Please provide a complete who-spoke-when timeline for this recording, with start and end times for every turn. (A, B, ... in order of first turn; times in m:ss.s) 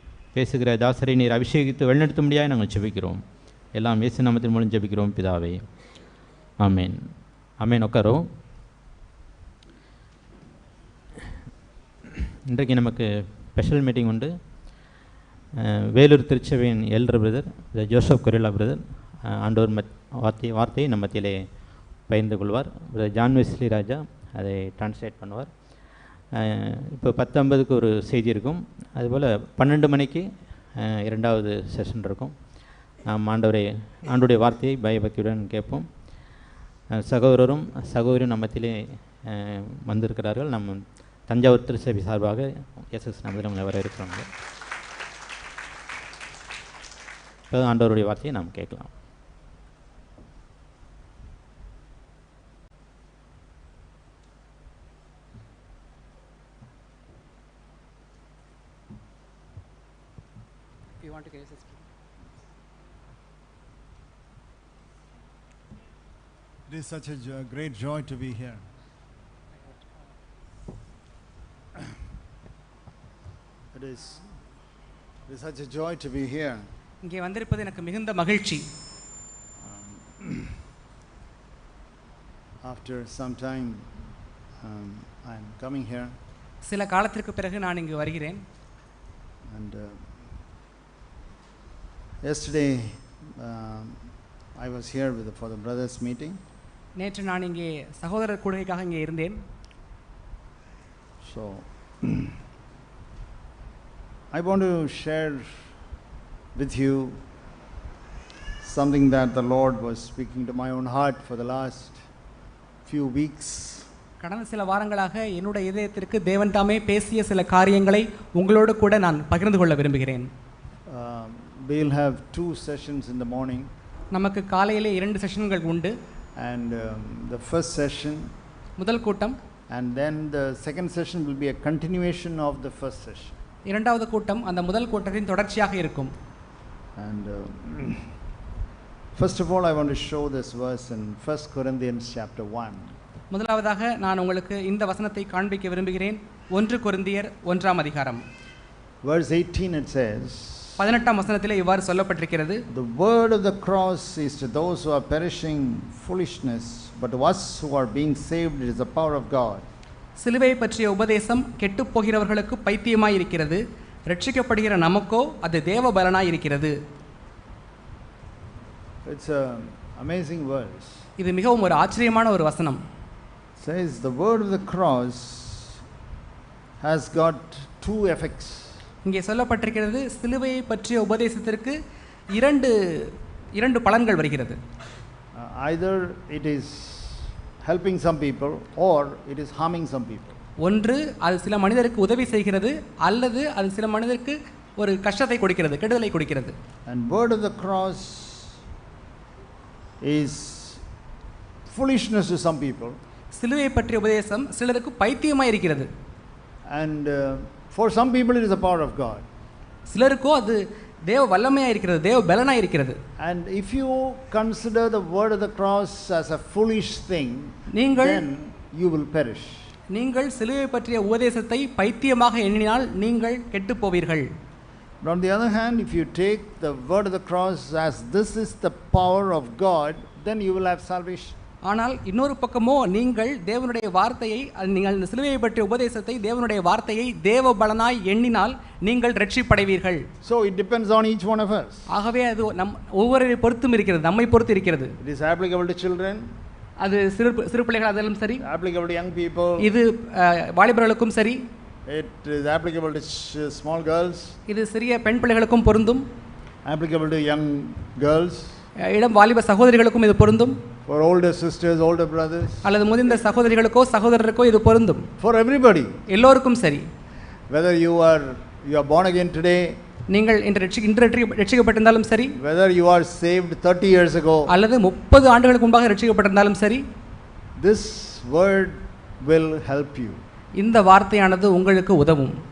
0:00.3-0:03.2 A
0:03.8-0:05.6 A
0:06.6-0:07.0 A
0:07.6-0:08.2 A
0:12.5-0:14.3 A
0:15.6-0:21.4 A
0:22.1-0:25.5 A
0:26.4-0:30.2 A
0:30.8-0:32.3 A
0:33.1-0:35.9 A
0:37.0-0:44.3 A
0:47.5-0:48.9 A
1:01.0-1:01.9 B
1:06.7-1:08.6 C
1:13.7-1:14.2 C
1:15.3-1:16.7 C
1:17.0-1:18.6 B
1:19.6-1:20.6 C
1:22.6-1:23.9 C
1:24.6-1:26.2 C
1:26.6-1:28.4 B
1:29.5-1:30.1 C
1:32.2-1:34.0 C
1:34.6-1:36.4 C
1:37.0-1:39.4 B
1:41.2-1:42.3 C
1:44.3-1:45.6 C
1:46.6-1:47.2 C
1:48.6-1:52.0 C
1:52.9-1:53.9 C
1:54.2-2:00.3 B
2:00.9-2:03.7 C
2:04.1-2:05.9 B
2:06.4-2:08.3 C
2:08.8-2:09.4 B
2:09.7-2:13.4 C
2:13.7-2:16.1 B
2:17.0-2:18.1 C
2:19.2-2:23.0 C
2:23.3-2:28.2 B
2:29.0-2:30.9 C
2:30.8-2:32.6 B
2:32.7-2:39.6 C
2:40.2-2:46.8 B
2:49.0-2:51.1 C
2:51.2-2:52.8 B
2:53.6-2:55.8 C
2:56.8-2:58.8 C
2:59.0-3:01.8 B
3:02.3-3:04.6 B
3:05.4-3:10.4 C
3:10.6-3:16.5 B
3:16.9-3:18.6 C
3:20.0-3:20.8 C
3:21.7-3:23.0 C
3:23.3-3:25.9 B
3:26.7-3:29.2 C
3:29.9-3:33.0 B
3:33.2-3:39.7 C
3:37.7-3:38.2 B
3:39.9-3:44.3 B
3:45.0-3:51.4 C
3:51.6-4:00.1 B
4:00.2-4:01.9 C
4:01.9-4:04.9 B
4:05.0-4:06.3 C
4:06.8-4:08.4 B
4:08.4-4:09.7 C
4:09.6-4:11.4 B
4:11.9-4:14.4 C
4:14.5-4:16.0 B
4:16.6-4:18.6 C
4:18.8-4:20.6 B
4:20.9-4:22.7 C
4:22.6-4:25.1 B
4:25.2-4:26.0 C
4:26.1-4:26.9 B
4:27.5-4:29.8 C
4:30.1-4:32.4 B
4:32.4-4:34.5 C
4:34.5-4:36.8 B
4:37.6-4:40.2 C
4:40.6-4:42.4 B